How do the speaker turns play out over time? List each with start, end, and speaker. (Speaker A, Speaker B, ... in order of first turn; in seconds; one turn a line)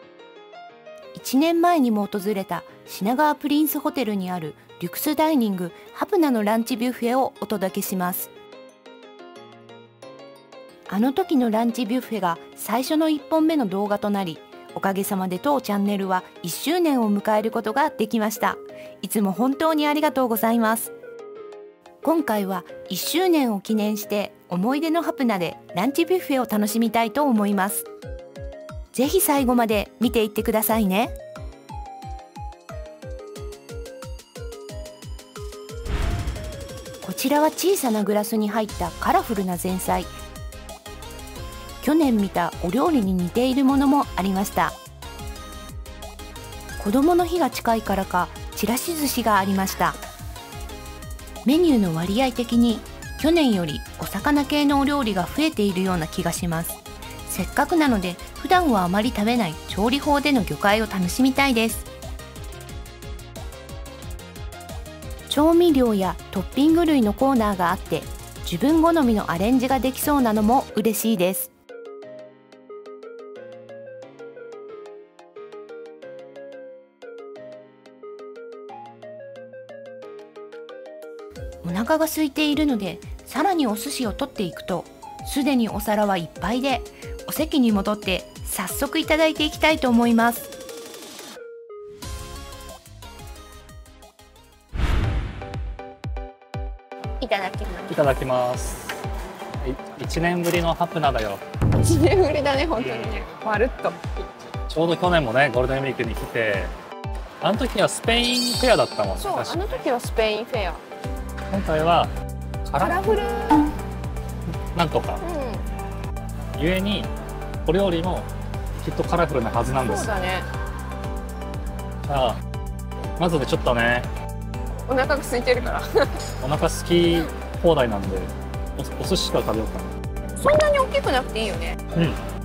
Speaker A: 1.1-8.3
Speaker A: 10.9-20.9
Speaker A: 22.0-27.9
Speaker A: 28.9-31.1
Speaker A: 37.0-40.1
Speaker A: 41.8-44.8
Speaker A: 46.8-50.0
Speaker A: 51.4-61.9
Speaker A: 65.3-71.5
Speaker A: 81.6-90.5
Speaker B: 97.2-97.9
Speaker C: 97.9-99.0
Speaker C: 99.6-101.4
Speaker B: 101.8-104.0
Speaker C: 102.8-103.2
Speaker C: 104.7-106.7
Speaker C: 107.4-109.6
Speaker B: 109.2-110.8
Speaker C: 111.5-112.1
Speaker C: 112.6-113.0
Speaker B: 112.8-113.7
Speaker C: 114.7-115.2
Speaker B: 115.2-115.7
Speaker C: 116.6-117.1
Speaker C: 117.6-118.3
Speaker C: 118.8-120.1
Speaker B: 119.7-120.5
Speaker C: 122.0-122.4
Speaker C: 123.2-124.1
Speaker B: 124.9-126.2
Speaker C: 126.4-129.9
Speaker B: 130.4-131.8
Speaker C: 131.9-132.2